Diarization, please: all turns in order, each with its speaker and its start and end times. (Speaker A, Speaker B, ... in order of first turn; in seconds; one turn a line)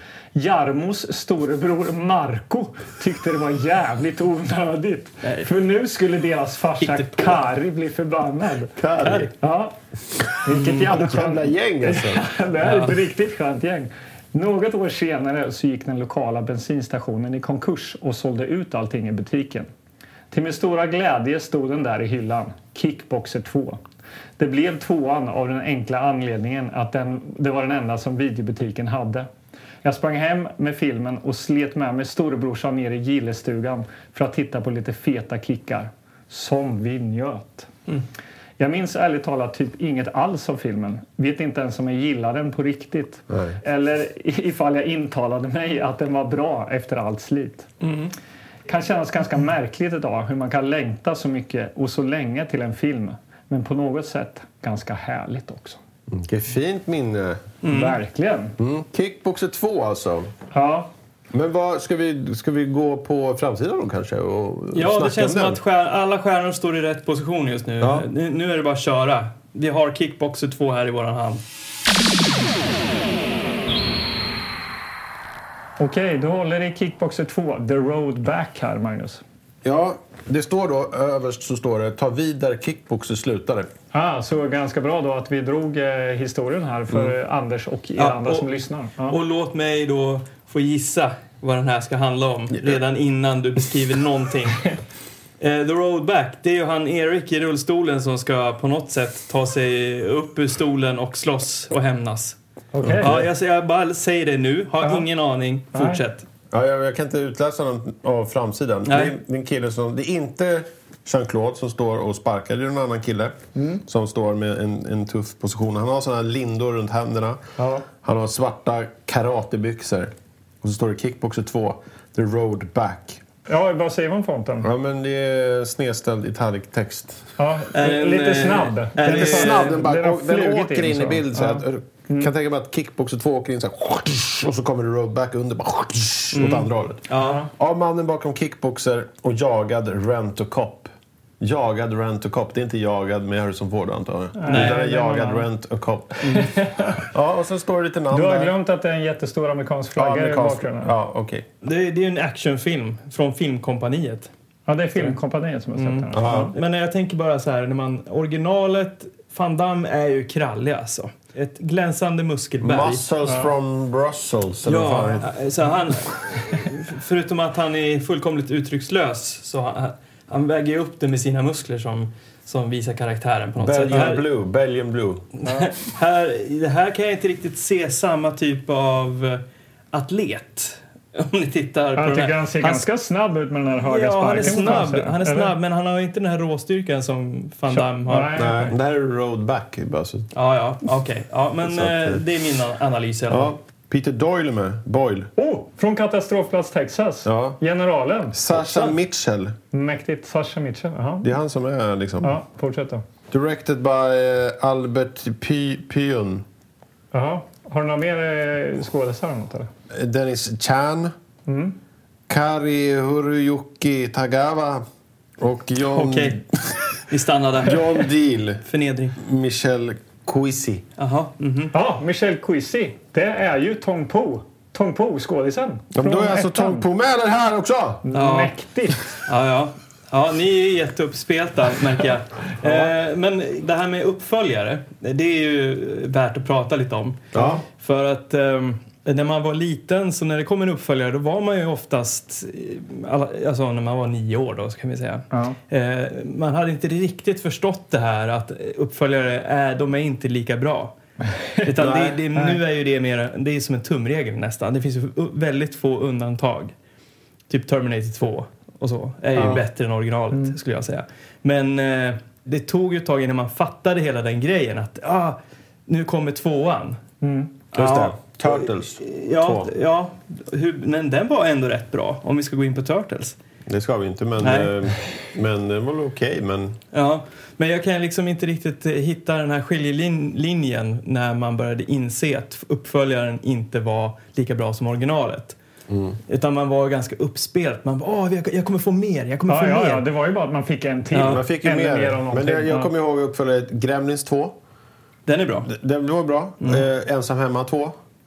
Speaker A: 0.3-8.7
Speaker B: 5.2-5.5
Speaker B: 6.8-7.4
Speaker C: 8.8-9.3
Speaker B: 9.0-9.3
Speaker A: 9.4-9.7
Speaker A: 10.4-19.7
Speaker B: 10.5-10.9
Speaker C: 10.9-12.3
Speaker B: 12.6-13.0
Speaker A: 20.3-23.8
Speaker A: 24.4-29.3
Speaker A: 29.8-37.7
Speaker A: 38.6-47.7
Speaker C: 43.3-43.6
Speaker B: 47.8-48.1
Speaker A: 48.7-55.8
Speaker C: 56.1-57.4
Speaker B: 57.6-58.0
Speaker A: 57.6-58.5
Speaker C: 58.6-60.3
Speaker A: 60.5-60.9
Speaker C: 61.3-65.6
Speaker B: 64.7-71.4
Speaker C: 67.8-68.1
Speaker A: 75.8-79.2
Speaker C: 79.6-83.7
Speaker A: 83.9-89.2
Speaker B: 88.0-88.5
Speaker B: 89.0-94.8
Speaker B: 95.4-102.3
Speaker A: 102.7-103.2
Speaker C: 102.8-103.3
Speaker B: 103.0-106.2
Speaker A: 105.7-106.0
Speaker C: 106.5-117.4
Speaker B: 108.9-109.1
Speaker A: 113.5-113.8
Speaker A: 117.6-117.8
Speaker C: 118.0-123.2
Speaker A: 123.5-124.7
Speaker C: 124.6-127.3
Speaker A: 127.4-132.3
Speaker B: 127.7-129.7
Speaker C: 129.0-148.5
Speaker B: 136.3-137.4
Speaker A: 137.2-137.5
Speaker A: 144.4-145.4
Speaker B: 144.5-144.8
Speaker A: 146.3-147.0
Speaker A: 148.1-150.9
Speaker C: 149.9-151.4
Speaker B: 151.6-154.3
Speaker A: 154.7-156.5
Speaker B: 155.8-163.0
Speaker C: 156.1-156.5
Speaker C: 162.6-165.3
Speaker A: 163.2-163.5
Speaker B: 164.7-174.2
Speaker C: 173.6-175.2
Speaker B: 175.4-182.8
Speaker A: 175.4-175.7
Speaker A: 181.9-185.5
Speaker B: 183.8-188.7
Speaker C: 184.4-184.7
Speaker A: 187.7-188.7
Speaker C: 188.3-190.3
Speaker B: 190.3-193.5
Speaker C: 191.6-192.2
Speaker C: 193.3-195.3
Speaker A: 195.4-198.9
Speaker C: 197.2-197.6
Speaker C: 198.3-199.5
Speaker A: 199.7-201.3
Speaker C: 201.2-202.4
Speaker A: 202.2-203.0
Speaker C: 203.3-206.4
Speaker A: 207.1-209.7
Speaker C: 209.9-211.1
Speaker A: 211.5-211.8
Speaker C: 212.3-214.8
Speaker C: 215.4-216.8
Speaker B: 215.9-218.1
Speaker C: 217.6-218.6
Speaker B: 218.6-219.2
Speaker C: 219.2-220.8
Speaker B: 221.0-221.7
Speaker A: 221.7-226.8
Speaker C: 225.9-228.0
Speaker A: 228.1-229.0
Speaker B: 228.1-228.6
Speaker B: 229.2-250.9
Speaker C: 232.6-232.9
Speaker C: 237.3-237.6
Speaker A: 245.3-245.6
Speaker B: 251.6-256.7
Speaker C: 251.8-252.2
Speaker B: 257.5-267.0
Speaker A: 259.4-259.6
Speaker A: 267.2-267.5
Speaker B: 267.7-273.4
Speaker C: 267.7-269.7
Speaker C: 273.7-276.8
Speaker B: 274.4-274.7
Speaker B: 276.9-285.6
Speaker C: 285.9-286.2
Speaker B: 286.3-290.0
Speaker A: 289.5-292.9
Speaker B: 291.1-291.4
Speaker C: 291.2-294.6
Speaker B: 295.3-295.7
Speaker C: 295.6-298.0